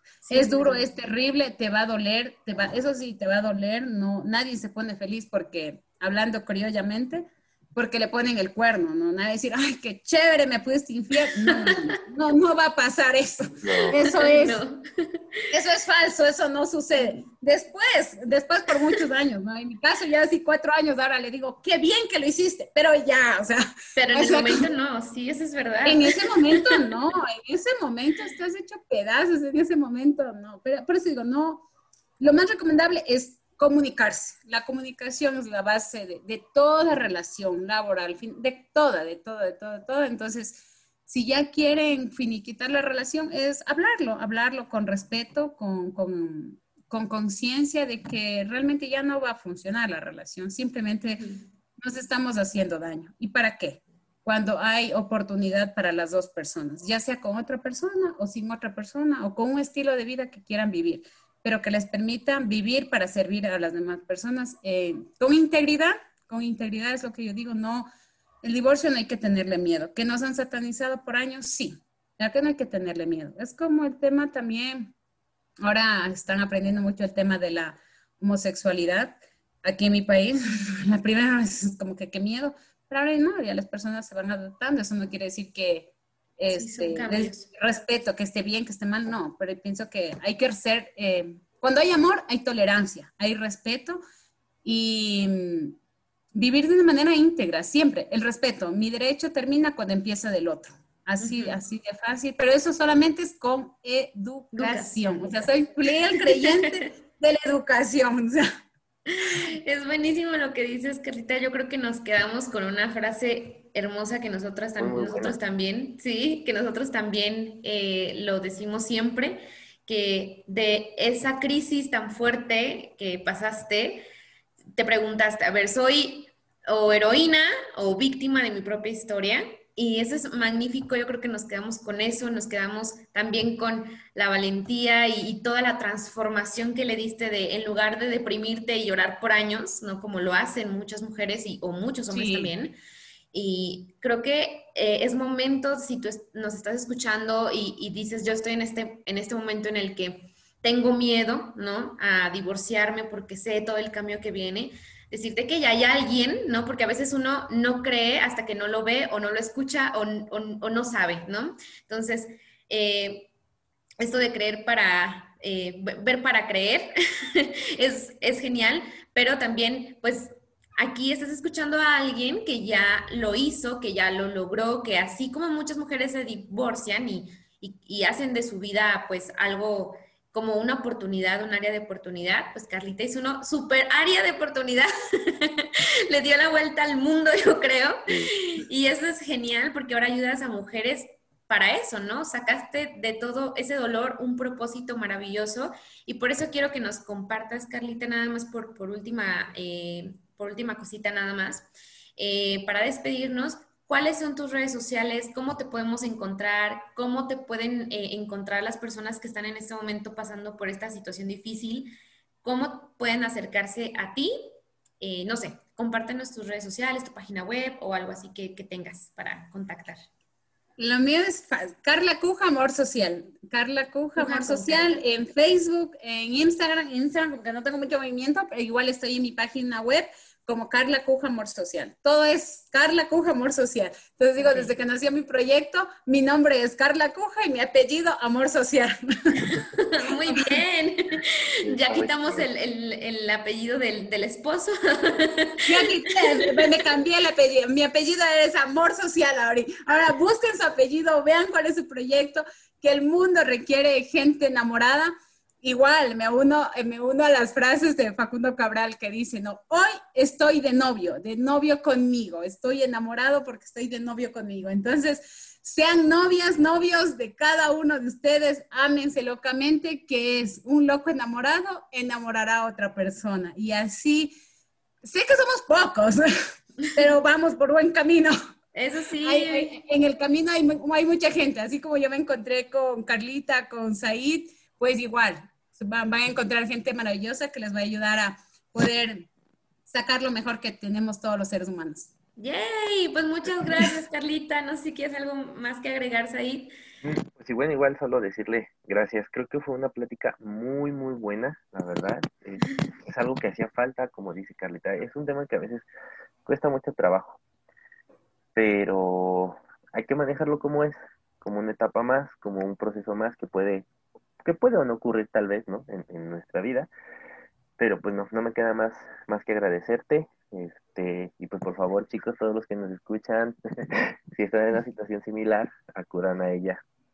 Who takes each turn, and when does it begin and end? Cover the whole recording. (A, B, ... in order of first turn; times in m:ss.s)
0:00.2-0:00.8 A
0:00.3-0:14.6 B
0:11.4-0:12.0 A
0:13.6-0:13.9 C
0:13.8-0:15.5 A
0:15.5-0:24.6 B
0:24.0-0:26.7 A
0:25.8-0:31.6 B
0:32.2-0:51.2 B
0:51.8-1:07.9 B
1:08.4-1:14.9 B
1:15.6-1:34.0 B
1:26.5-1:27.5 A
1:34.6-1:35.8 B
1:36.3-1:48.5 B
1:41.2-1:41.6 A
1:44.5-1:45.2 A
1:46.3-1:46.9 A
1:49.1-2:04.0 A
1:54.8-1:55.4 C
2:04.8-2:22.8 A
2:22.1-2:22.5 B
2:23.3-2:43.3 A
2:44.0-3:40.1 A
3:40.8-3:59.4 B
3:44.2-3:45.0 A
3:54.4-3:54.7 A
3:59.4-4:06.7 A
4:01.6-4:02.5 C
4:05.7-4:34.3 B
4:35.0-4:36.3 B
4:36.9-4:38.3 B
4:38.7-4:39.7 A
4:39.2-4:49.3 B
4:49.9-4:52.1 B
4:52.4-4:56.7 A
4:57.0-5:05.8 C
5:06.4-5:07.4 C
5:08.5-5:13.8 C
5:14.4-5:16.9 C
5:17.8-5:26.8 C